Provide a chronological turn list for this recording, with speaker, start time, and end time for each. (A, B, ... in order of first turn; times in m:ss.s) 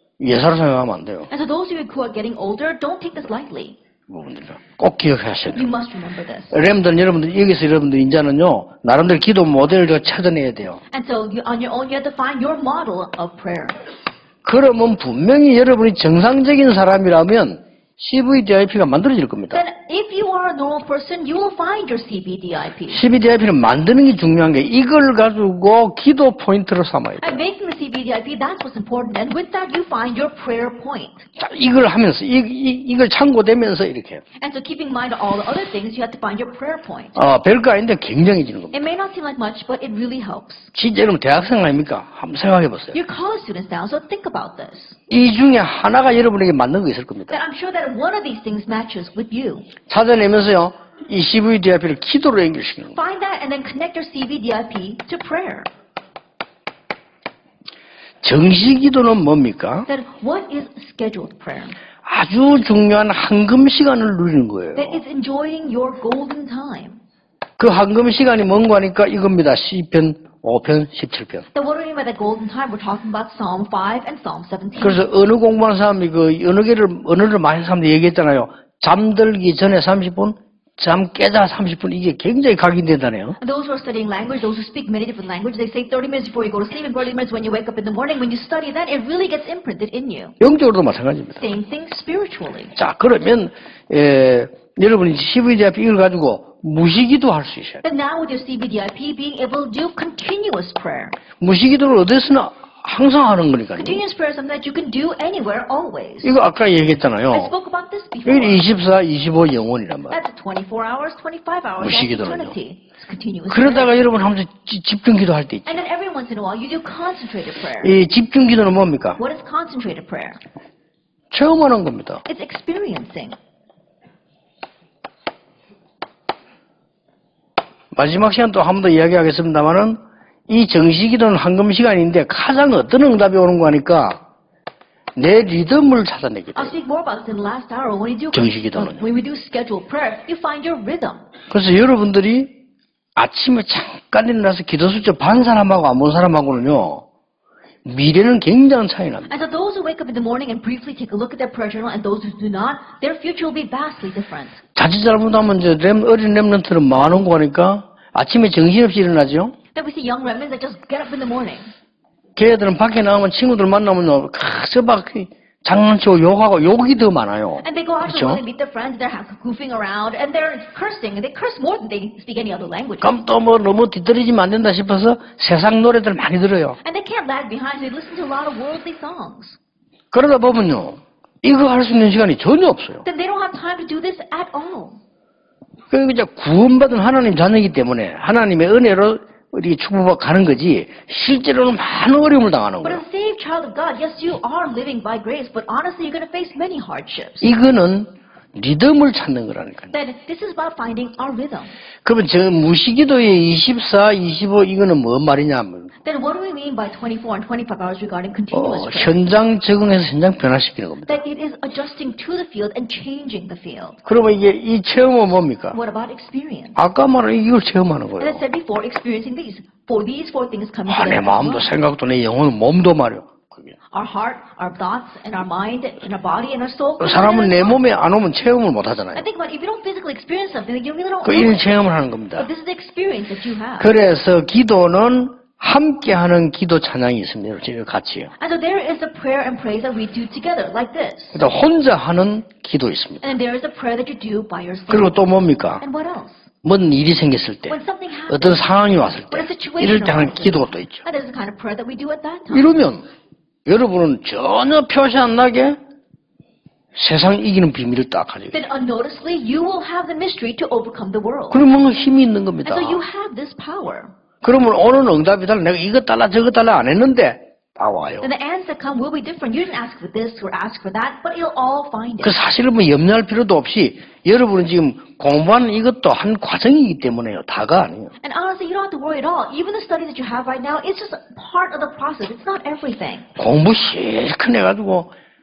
0:00.2-0:01.3 A
0:01.3-0:03.8 B
0:04.1-0:05.7 A
0:05.5-0:06.6 B
0:06.5-0:10.8 A
0:10.9-0:13.8 B
0:14.4-0:19.6 A
0:19.5-0:23.0 B
0:22.9-0:27.4 A
0:27.2-0:31.3 B
0:31.4-0:34.2 A
0:34.4-0:37.2 B
0:37.2-0:38.8 A
0:38.7-0:40.7 B
0:40.8-0:43.0 A
0:42.9-0:45.0 B
0:45.1-0:47.4 A
0:47.3-0:49.7 B
0:49.9-0:53.0 A
0:53.0-0:55.7 B
0:58.2-0:59.9 A
0:59.9-1:01.8 B
1:02.0-1:05.0 A
1:04.8-1:07.0 B
1:07.6-1:11.5 A
1:11.5-1:15.1 B
1:14.8-1:23.4 A
1:23.4-1:30.4 B
1:30.4-1:31.4 A
1:31.4-1:32.7 B
1:32.8-1:37.8 A
1:37.8-1:41.2 B
1:41.4-1:44.0 A
1:43.8-1:46.4 B
1:46.2-1:47.5 A
1:47.3-1:48.6 B
1:48.3-1:50.2 A
1:50.1-1:54.0 B
1:51.8-1:52.6 A
1:53.5-1:55.8 A
1:55.7-1:57.9 B
1:57.8-1:59.2 A
1:59.2-2:00.4 B
2:01.3-2:02.2 A
2:02.3-2:03.4 B
2:07.9-2:10.0 A
2:10.5-2:14.2 A
2:15.2-2:16.8 A
2:16.6-2:21.2 B
2:18.3-2:19.0 A
2:21.5-2:22.6 A
2:23.1-2:27.1 A
2:27.8-2:29.3 A
2:29.3-2:34.6 B
2:34.8-2:39.6 A
2:39.8-2:41.7 B
2:42.4-2:48.4 A
2:47.6-2:53.1 B
2:53.0-2:56.8 A
2:56.8-2:59.6 B
3:00.1-3:03.0 A
3:03.0-3:05.0 B
3:05.9-3:13.0 A
3:12.8-3:17.5 B
3:17.4-3:19.9 A
3:19.9-3:21.8 B
3:22.0-3:25.9 A
3:26.0-3:29.2 B
3:28.5-3:31.2 A
3:31.1-3:34.0 B
3:34.1-3:35.8 A
3:35.7-3:36.8 B
3:36.8-3:38.4 A
3:38.2-3:41.7 B
3:40.9-3:43.8 A
3:43.9-3:47.8 B
3:47.0-3:49.2 A
3:49.1-3:51.6 B
3:51.2-3:52.5 A
3:52.4-3:53.9 B
3:53.8-3:58.3 A
3:58.4-4:01.4 B
4:01.4-4:03.3 A
4:03.2-4:05.2 B
4:04.9-4:05.8 A
4:05.8-4:06.5 B
4:06.6-4:07.8 A
4:07.7-4:08.7 B
4:08.3-4:11.0 A
4:09.3-4:12.8 B
4:12.5-4:13.0 A
4:13.6-4:15.8 A
4:17.0-4:18.6 A
4:18.5-4:21.6 B
4:21.5-4:23.0 A
4:22.6-4:24.1 B
4:24.4-4:28.3 A
4:28.2-4:32.4 B
4:32.2-4:38.1 A
4:38.2-4:43.3 B
4:43.4-4:45.1 A